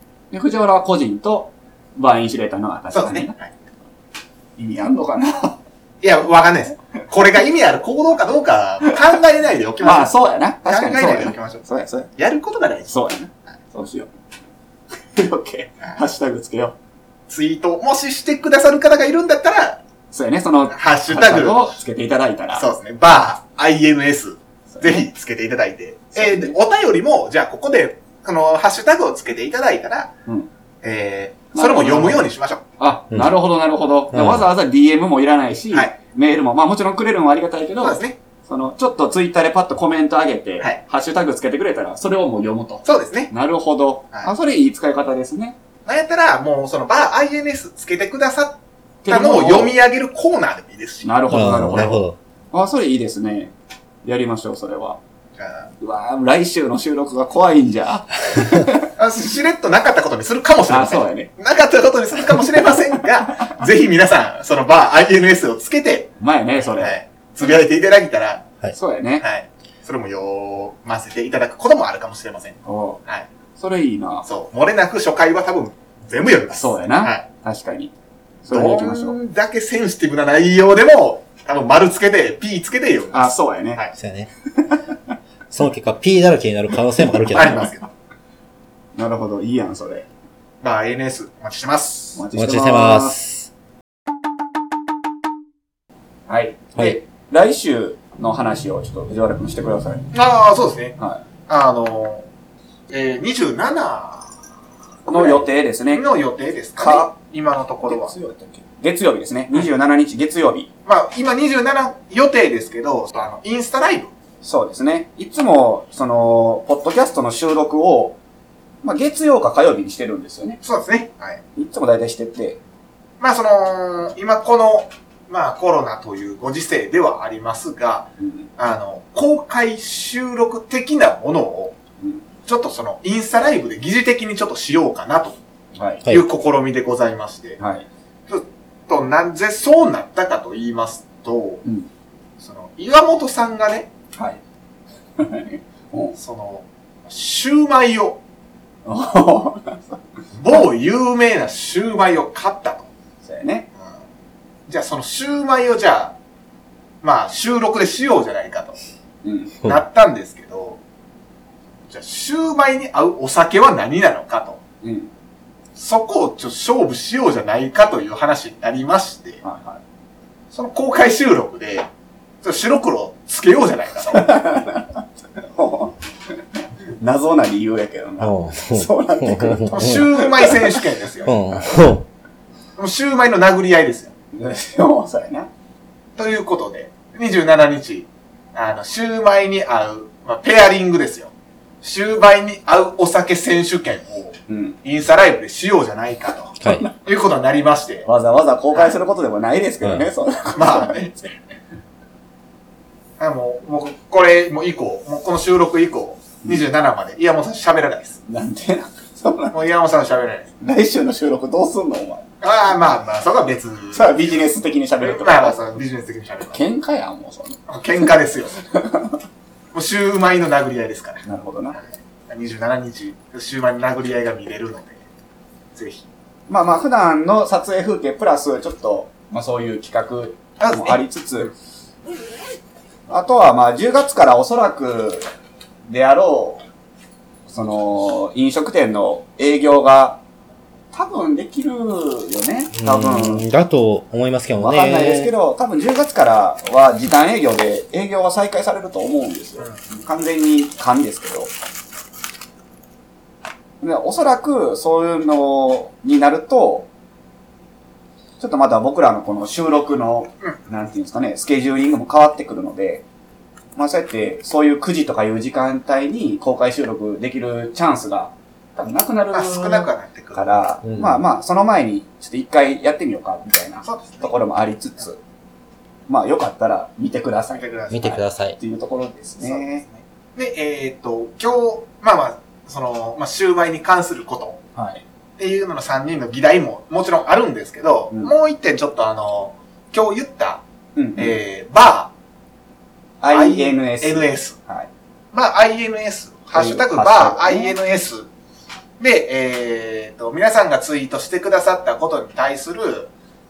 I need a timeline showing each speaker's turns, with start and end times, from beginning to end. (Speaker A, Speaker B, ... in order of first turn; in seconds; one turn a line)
Speaker A: 0.3-3.3
Speaker B: 2.9-3.5
Speaker A: 4.6-5.6
Speaker B: 6.0-10.1
Speaker A: 9.8-12.1
Speaker B: 10.6-12.9
Speaker A: 12.9-14.1
Speaker A: 15.1-16.8
Speaker B: 17.3-19.8
Speaker A: 20.1-22.6
Speaker B: 20.7-21.7
Speaker B: 22.5-30.1
Speaker A: 24.7-25.1
Speaker A: 26.1-26.6
Speaker B: 30.8-32.6
Speaker A: 31.5-32.3
Speaker A: 32.8-45.6
Speaker C: 34.1-34.5
Speaker B: 37.8-38.2
Speaker B: 42.8-43.3
Speaker B: 45.9-52.0
Speaker A: 49.0-49.7
Speaker A: 51.0-53.5
Speaker C: 51.3-52.2
Speaker A: 54.0-55.0
Speaker B: 55.4-55.7
Speaker A: 55.8-58.9
Speaker B: 59.0-66.1
Speaker A: 60.7-61.3
Speaker A: 66.2-67.0
Speaker B: 66.7-68.4
Speaker A: 68.7-69.2
Speaker B: 69.2-73.3
Speaker A: 72.7-73.0
Speaker A: 73.6-74.3
Speaker B: 74.3-77.2
Speaker A: 76.5-77.9
Speaker A: 78.4-79.2
Speaker B: 78.5-83.9
Speaker A: 83.1-83.8
Speaker C: 84.0-84.3
Speaker A: 84.5-84.8
Speaker C: 85.5-87.6
Speaker B: 87.3-87.9
Speaker A: 87.3-87.7
Speaker A: 89.0-90.1
Speaker B: 90.6-92.2
Speaker A: 92.2-93.2
Speaker C: 92.3-93.5
Speaker A: 96.3-100.1
Speaker B: 100.1-100.9
Speaker B: 101.5-102.2
Speaker B: 102.9-104.3
Speaker B: 105.1-108.1
Speaker A: 105.1-106.0
Speaker A: 106.8-107.1
Speaker A: 107.8-110.7
Speaker B: 110.8-114.1
Speaker A: 114.4-118.2
Speaker A: 118.8-120.6
Speaker B: 120.6-121.4
Speaker A: 121.5-122.6
Speaker B: 123.2-131.7
Speaker A: 128.2-128.5
Speaker B: 132.5-135.4
Speaker A: 135.8-136.1
Speaker B: 136.1-137.6
Speaker A: 137.6-137.9
Speaker B: 138.3-141.6
Speaker B: 142.4-143.9
Speaker A: 144.2-144.4
Speaker A: 145.2-146.2
Speaker B: 146.2-148.2
Speaker A: 148.8-150.0
Speaker B: 150.4-152.9
Speaker A: 153.2-153.7
Speaker B: 154.7-156.1
Speaker B: 157.0-158.8
Speaker A: 159.2-159.6
Speaker B: 159.6-160.8
Speaker B: 161.9-164.6
Speaker A: 164.8-165.1
Speaker B: 165.8-169.4
Speaker A: 169.4-169.8
Speaker B: 170.5-171.8
Speaker B: 172.4-174.4
Speaker A: 174.1-176.0
Speaker A: 177.0-180.8
Speaker C: 178.2-180.1
Speaker B: 179.7-181.4
Speaker C: 181.3-182.1
Speaker B: 182.8-184.1
Speaker A: 184.3-185.5
Speaker B: 186.2-191.3
Speaker B: 191.8-198.1
Speaker A: 194.5-194.8
Speaker A: 196.7-196.9
Speaker A: 198.1-201.3
Speaker B: 200.6-201.2
Speaker B: 203.2-208.2
Speaker A: 208.3-209.6
Speaker B: 209.5-210.5
Speaker A: 210.6-212.3
Speaker B: 212.4-214.5
Speaker A: 213.9-215.7
Speaker B: 215.0-216.7
Speaker A: 216.5-218.1
Speaker B: 217.7-218.6
Speaker A: 218.7-219.2
Speaker B: 219.7-221.2
Speaker A: 221.2-221.8
Speaker B: 221.7-225.0
Speaker B: 225.7-226.1
Speaker A: 226.5-231.5
Speaker B: 230.6-231.0
Speaker A: 233.1-235.3
Speaker A: 235.9-236.6
Speaker A: 237.5-240.2
Speaker A: 240.9-243.4
Speaker C: 242.7-245.3
Speaker A: 244.6-251.5
Speaker A: 253.8-256.9
Speaker A: 258.4-263.1
Speaker A: 263.8-275.2
Speaker B: 269.3-270.6
Speaker C: 270.8-271.2
Speaker B: 273.8-274.3
Speaker A: 276.1-277.7
Speaker B: 277.5-278.2
Speaker C: 277.9-278.6
Speaker A: 278.6-279.8
Speaker B: 279.4-284.6
Speaker A: 284.8-285.0
Speaker B: 285.4-290.6
Speaker A: 290.9-291.4
Speaker B: 291.2-292.1
Speaker A: 293.2-294.9
Speaker B: 293.3-294.6
Speaker B: 295.3-298.3
Speaker A: 296.5-297.7
Speaker B: 299.0-303.1